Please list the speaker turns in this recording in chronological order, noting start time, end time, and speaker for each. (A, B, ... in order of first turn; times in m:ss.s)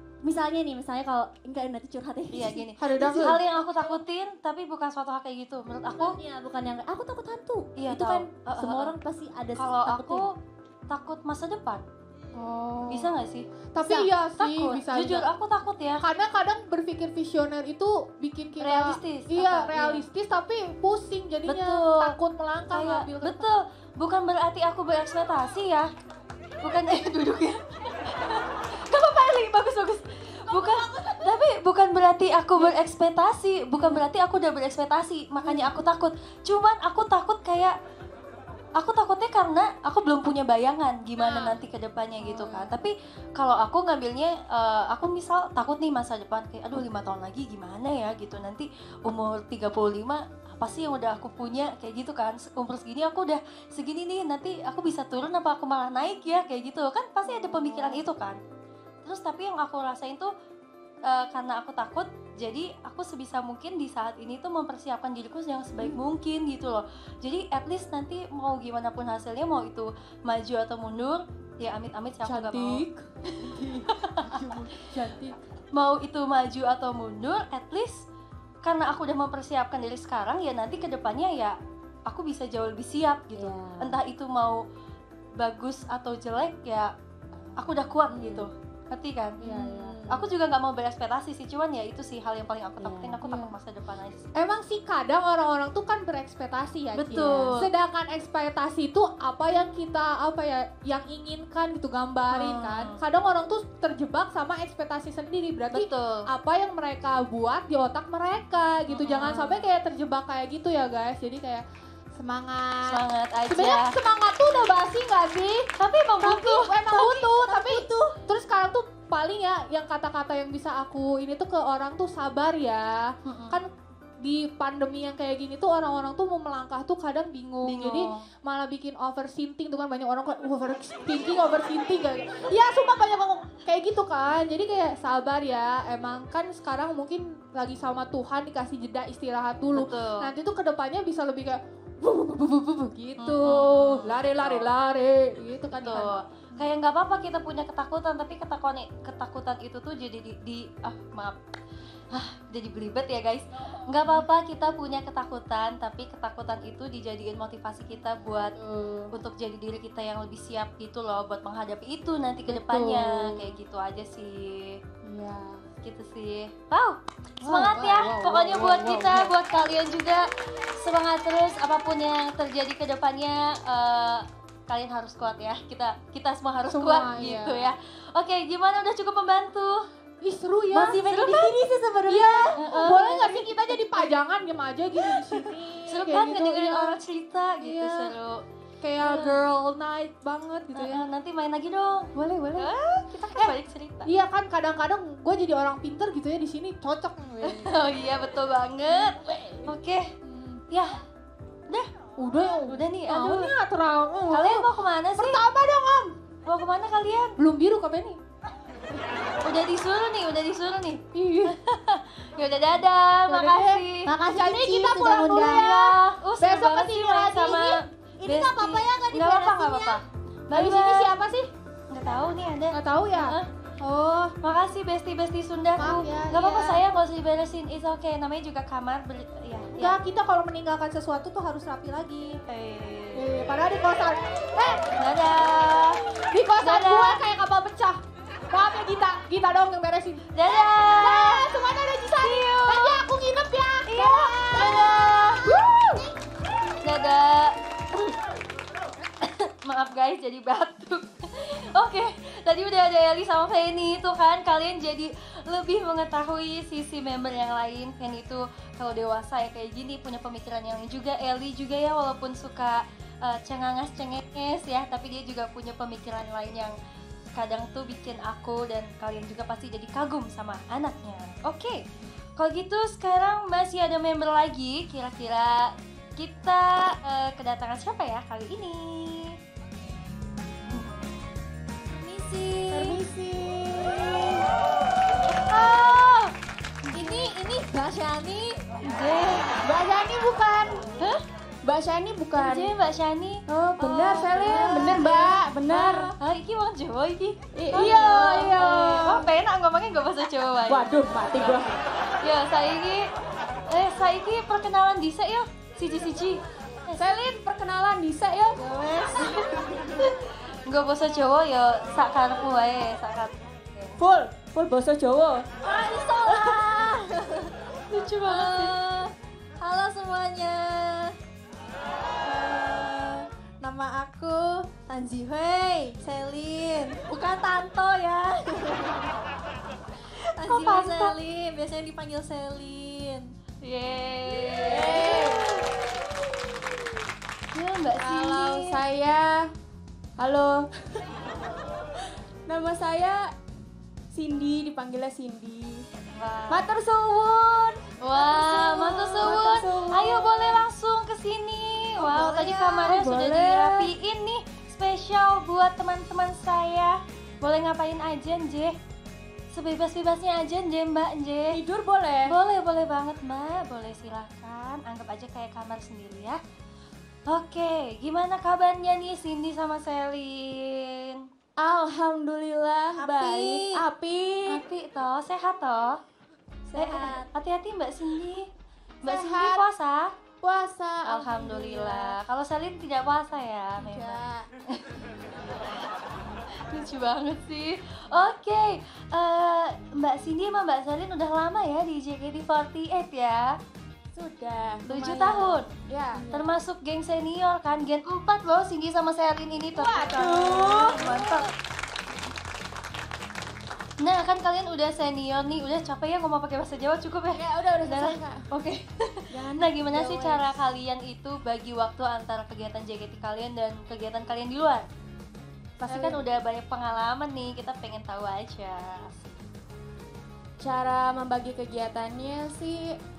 0:00.2-0:02.6 A
0:02.3-0:06.2 B
0:02.8-0:03.4 C
0:06.0-0:10.3 A
0:07.8-0:08.9 B
0:09.6-0:10.4 B
0:10.9-0:11.8 B
0:12.3-0:13.1 C
0:12.9-0:16.0 B
0:13.7-0:15.3 C
0:16.0-0:23.5 C
0:18.6-0:20.1 B
0:21.5-0:22.2 B
0:22.7-0:25.9 B
0:26.6-0:37.8 B
0:30.5-0:31.3 A
0:33.7-0:34.0 C
0:35.4-0:35.8 C
0:38.8-0:58.4 B
0:41.2-0:41.5 C
0:42.2-0:42.7 C
0:59.0-1:00.3 B
1:01.0-1:12.8 B
1:12.2-1:15.4 C
1:13.4-1:14.4 B
1:15.7-1:18.1 B
1:18.6-1:24.6 B
1:23.4-1:24.0 A
1:25.4-1:26.9 B
1:27.6-1:29.4 B
1:29.4-1:30.1 C
1:29.4-1:30.2 A
1:30.1-1:34.3 B
1:32.8-1:33.2 A
1:33.2-1:33.6 C
1:34.4-1:51.6 C
1:37.0-1:37.7 B
1:42.3-1:43.0 B
1:45.7-1:46.2 B
1:48.9-1:49.7 B
1:52.2-1:53.0 C
1:52.9-1:54.0 B
1:53.5-1:55.7 C
1:55.8-1:56.7 B
1:56.2-2:03.7 C
1:56.7-1:58.2 A
2:03.2-2:03.6 B
2:04.2-2:26.6 C
2:07.6-2:08.2 B
2:19.8-2:20.3 B
2:23.2-2:24.7 B
2:25.7-2:31.4 B
2:32.1-2:38.6 B
2:33.9-2:34.2 C
2:38.6-2:39.1 C
2:39.1-2:44.8 B
2:42.5-2:43.5 C
2:45.0-2:45.6 C
2:45.8-2:59.8 B
2:47.4-2:49.4 C
2:56.7-2:57.7 C
3:00.2-3:01.0 C
3:00.7-3:03.8 A
3:01.1-3:01.5 B
3:02.1-3:07.0 C
3:02.6-3:03.3 B
3:05.9-3:08.4 B
3:07.6-3:08.1 C
3:08.8-3:11.0 C
3:09.0-3:09.4 B
3:10.8-3:14.1 B
3:12.1-3:12.7 C
3:13.4-3:17.8 C
3:17.4-3:20.1 B
3:18.9-3:19.7 C
3:20.3-3:20.6 C
3:20.7-3:21.0 B
3:22.2-3:26.2 C
3:22.4-3:23.5 B
3:24.3-3:25.4 B
3:26.4-3:27.4 B
3:27.4-3:28.2 C
3:29.4-3:34.1 B
3:31.1-3:31.6 C
3:33.3-3:37.8 C
3:34.1-3:35.8 A
3:35.2-3:41.2 B
3:38.2-3:40.0 A
3:40.5-3:41.5 C
3:41.9-3:43.5 B
3:42.7-3:43.4 C
3:43.9-3:44.3 C
3:44.4-3:50.0 B
3:45.8-3:46.8 C
3:49.8-3:52.2 C
3:52.4-3:53.4 B
3:53.2-3:54.9 C
3:55.0-3:56.1 B
3:56.3-3:58.0 C
3:56.6-3:57.2 B
3:58.5-4:06.0 C
4:00.3-4:01.5 B
4:02.2-4:03.1 B
4:03.9-4:05.7 B
4:06.8-4:08.2 B
4:09.2-4:26.8 B
4:27.4-4:31.8 B
4:32.4-4:39.4 B
4:40.6-4:41.0 B
4:42.1-4:42.7 B
4:42.1-4:43.0 A
4:42.7-4:44.5 C
4:45.3-4:46.3 B
4:46.9-4:47.3 B
4:47.0-4:47.7 C
4:47.0-4:48.6 A
4:48.8-4:49.6 B
4:49.6-4:50.8 C
4:51.6-4:52.7 C
4:52.4-5:03.1 B
4:53.5-4:56.1 C
4:54.4-4:55.2 A
4:57.6-4:59.3 C
5:00.7-5:01.8 C
5:03.7-5:07.0 B
5:07.0-5:08.7 C
5:08.6-5:09.4 A
5:09.2-5:14.0 B
5:14.0-5:15.4 C
5:15.6-5:17.5 A
5:17.9-5:19.0 B
5:18.3-5:19.0 A
5:19.6-5:21.1 A
5:22.2-5:29.2 A
5:30.4-5:33.3 A
5:30.4-5:31.2 B
5:33.6-5:35.3 B
5:34.7-5:35.6 C
5:34.8-5:35.6 A
5:37.5-5:38.8 B
5:38.0-5:39.5 C
5:40.2-5:41.0 C
5:42.5-5:43.2 C
5:44.1-5:45.8 C
5:46.1-5:46.7 B
5:46.5-5:50.6 C
5:48.0-5:58.8 B
5:49.2-5:49.6 A
5:52.0-5:53.9 C
5:59.5-6:01.6 B
6:01.5-6:02.4 C
6:02.3-6:06.4 B
6:07.3-6:11.2 B
6:11.6-6:14.6 C
6:13.0-6:13.8 A
6:14.5-6:16.0 B
6:16.7-6:17.2 A
6:16.7-6:18.5 B
6:19.0-6:20.1 B
6:19.0-6:19.7 C
6:20.4-6:22.2 C
6:21.0-6:24.2 B
6:23.8-6:24.5 C
6:24.7-6:25.0 B
6:26.6-6:33.6 B
6:34.2-6:36.5 C
6:34.9-6:35.8 B
6:36.3-6:41.5 B
6:39.8-6:41.4 C
6:40.4-6:41.0 A
6:44.0-6:54.9 B
6:47.4-6:48.4 C
6:49.3-6:50.5 C
6:55.8-6:59.3 B
6:55.9-6:56.2 C
7:00.6-7:02.9 C